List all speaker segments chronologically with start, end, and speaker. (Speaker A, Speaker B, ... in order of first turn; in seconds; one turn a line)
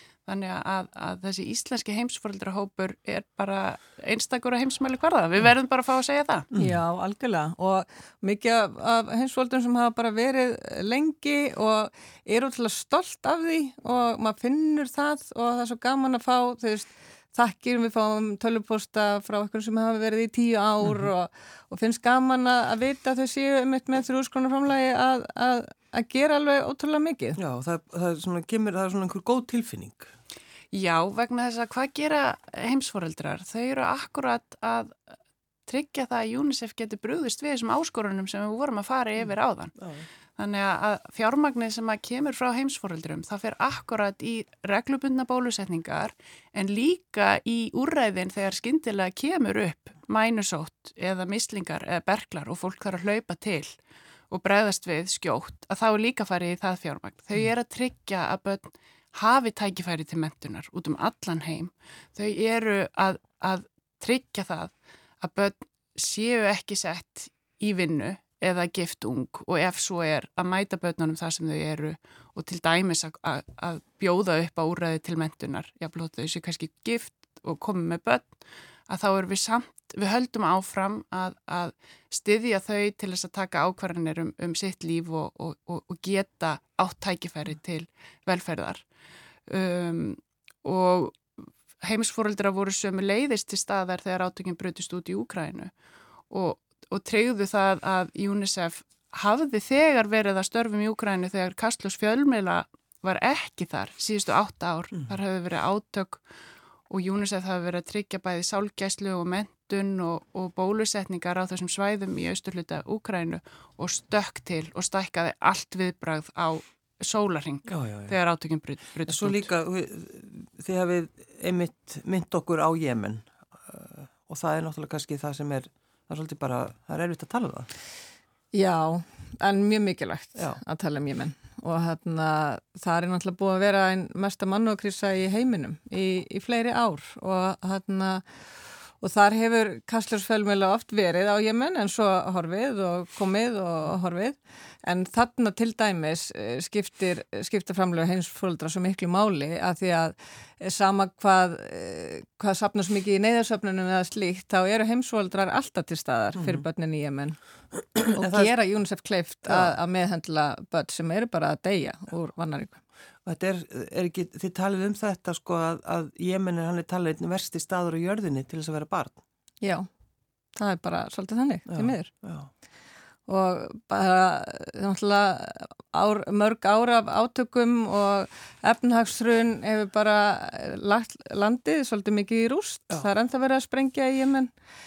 Speaker A: 0.3-6.5
Speaker B: 6.5-6.8
Speaker C: 6.6-27.4
Speaker B: 27.4-30.1
Speaker A: 30.7-35.1
Speaker A: 35.7-39.8
Speaker B: 39.2-40.0
Speaker A: 40.4-53.7
Speaker A: 54.3-78.4
Speaker A: 78.9-88.8
Speaker A: 89.5-95.7
Speaker A: 96.3-106.2
Speaker A: 106.9-119.5
Speaker B: 117.7-118.2
Speaker B: 119.1-127.7
Speaker C: 128.5-138.2
Speaker C: 139.0-157.4
Speaker B: 156.3-156.6
Speaker B: 157.9-158.5
Speaker C: 158.1-162.8
Speaker B: 159.4-159.7
Speaker B: 163.2-169.2
Speaker C: 169.6-169.9
Speaker C: 170.5-172.1
Speaker B: 171.7-172.5
Speaker C: 173.3-184.5